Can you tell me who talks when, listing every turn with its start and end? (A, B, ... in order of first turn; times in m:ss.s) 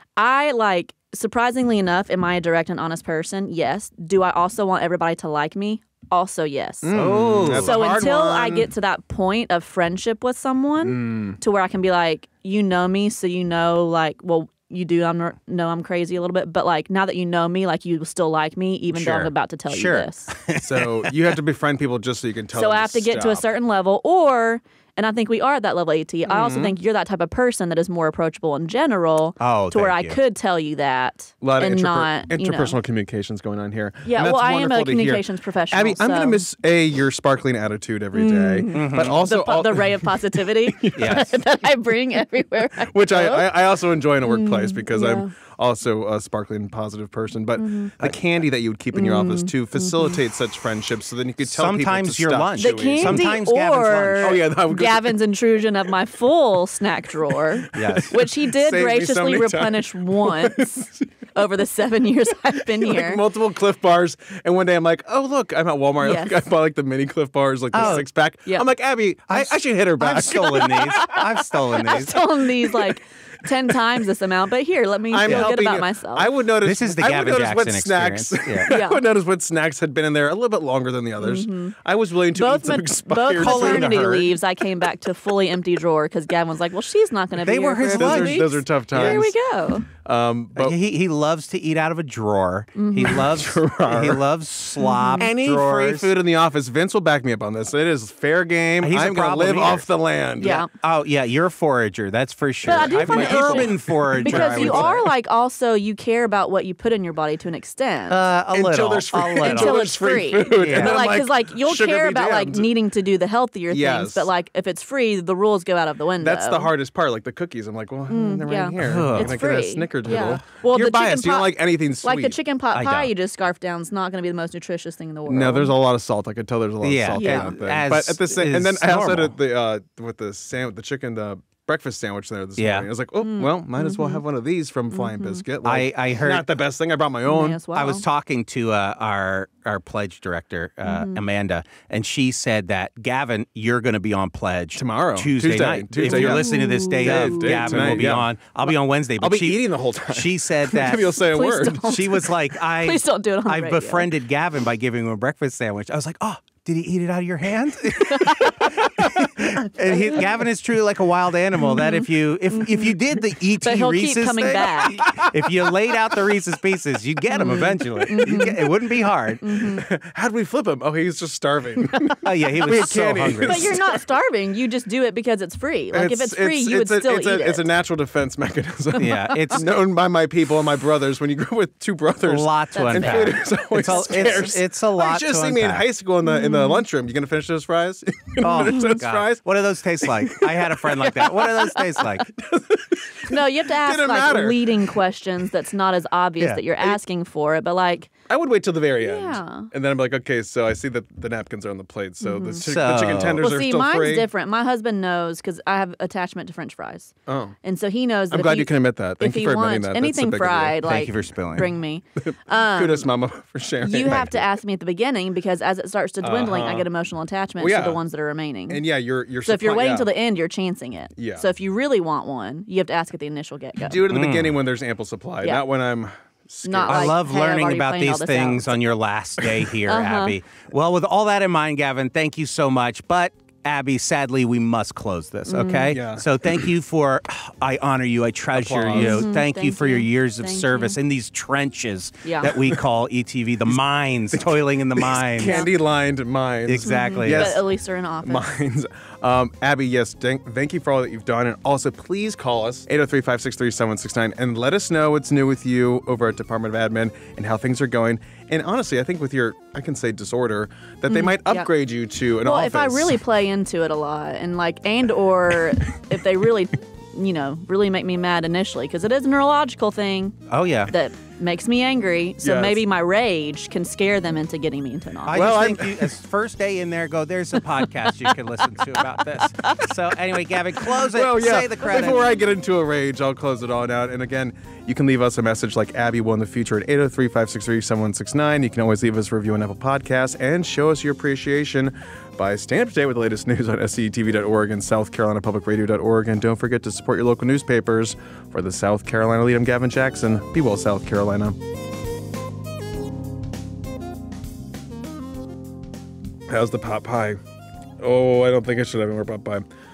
0:00.2-0:07.0 A
0:06.8-0:08.7 B
0:06.9-0:07.9 C
0:07.5-0:20.3 A
0:10.8-0:11.4 B
0:19.0-0:21.1 C
0:20.6-0:23.5 B
0:22.6-0:32.8 A
0:26.3-0:26.8 B
0:29.4-0:30.2 C
0:31.4-0:41.3 B
0:34.1-0:36.4 A
0:38.1-0:43.5 A
0:38.7-0:39.2 C
0:41.0-0:41.4 C
0:42.9-0:53.3 B
0:44.2-0:45.3 A
0:47.6-0:47.9 A
0:48.9-0:50.1 A
0:51.4-0:54.4 C
0:52.6-1:03.2 A
0:54.2-0:55.2 B
0:57.8-0:58.2 C
0:57.8-1:01.1 B
1:02.8-1:11.2 B
1:06.0-1:06.4 A
1:07.7-1:08.1 C
1:07.8-1:08.6 A
1:09.3-1:12.2 C
1:11.0-1:16.3 A
1:15.1-1:24.1 B
1:16.6-1:18.7 C
1:18.7-1:19.0 A
1:21.2-1:21.8 A
1:22.4-1:29.9 A
1:23.4-1:24.4 C
1:27.4-1:29.3 C
1:27.9-1:29.3 B
1:30.0-1:30.8 B
1:30.6-1:36.1 C
1:32.8-1:33.3 A
1:33.0-1:34.2 B
1:34.8-1:35.3 A
1:35.2-1:40.6 B
1:38.8-1:39.8 C
1:40.4-1:40.7 A
1:40.4-1:45.1 C
1:42.6-1:48.2 A
1:42.8-1:45.0 B
1:48.1-1:49.8 C
1:48.5-1:52.7 B
1:49.4-1:56.7 A
1:50.6-1:51.1 C
1:53.7-1:54.3 B
1:56.2-2:02.4 B
1:58.1-2:05.7 A
1:58.8-1:59.4 C
2:02.7-2:03.1 C
2:05.3-2:17.6 B
2:06.8-2:09.4 C
2:07.1-2:07.6 A
2:12.6-2:12.9 C
2:13.2-2:14.2 A
2:14.9-2:15.4 A
2:15.6-2:16.5 C
2:17.3-2:18.0 A
2:17.7-2:49.4 C
2:20.8-2:21.2 A
2:24.8-2:28.3 B
2:26.0-2:28.1 A
2:29.2-2:32.1 B
2:30.9-2:34.1 A
2:38.0-2:38.9 A
2:41.6-2:43.0 A
2:43.6-2:45.2 A
2:47.3-2:48.6 A
2:48.1-2:48.5 B
2:49.4-2:49.8 A
2:49.8-2:54.0 B
2:51.9-2:52.9 A
2:52.2-2:53.7 C
2:53.4-2:57.7 A
2:55.9-3:11.8 B
2:59.0-2:59.6 C
2:59.0-2:59.6 A
3:02.2-3:05.8 C
3:02.7-3:04.6 A
3:06.3-3:06.8 A
3:08.4-3:12.3 C
3:08.7-3:09.0 A
3:12.3-3:14.8 B
3:13.3-3:18.1 A
3:18.3-3:24.3 B
3:19.0-3:19.7 A
3:22.2-3:22.6 A
3:22.6-3:23.4 C
3:23.4-3:27.1 A
3:27.3-3:27.6 B
3:27.6-3:33.1 A
3:28.3-3:30.9 B
3:30.8-3:31.7 C
3:32.2-3:34.5 B
3:33.8-3:38.8 A
3:36.2-3:36.9 B
3:37.6-3:38.0 B
3:38.7-3:40.1 B
3:39.5-3:44.0 A
3:41.2-3:41.5 B
3:43.8-3:47.2 B
3:44.1-3:44.6 C
3:46.6-3:48.8 A
3:46.9-4:05.7 C
3:49.9-3:50.4 A
3:55.5-3:55.9 A
3:55.9-3:56.3 B
3:58.5-3:59.4 B
3:58.9-4:01.0 A
4:02.2-4:02.6 A
4:04.3-4:07.6 B
4:05.4-4:05.7 A
4:06.7-4:07.6 C
4:06.8-4:08.4 A
4:08.2-4:23.2 B
4:21.1-4:21.7 A
4:22.4-4:35.4 A
4:30.5-4:30.9 C
4:32.4-4:32.8 B
4:35.3-4:42.2 C
4:35.3-4:36.1 B
4:39.6-4:39.9 A
4:40.9-5:01.6 B
4:41.8-4:42.4 A
5:06.5-5:07.4 B
5:08.0-5:09.6 B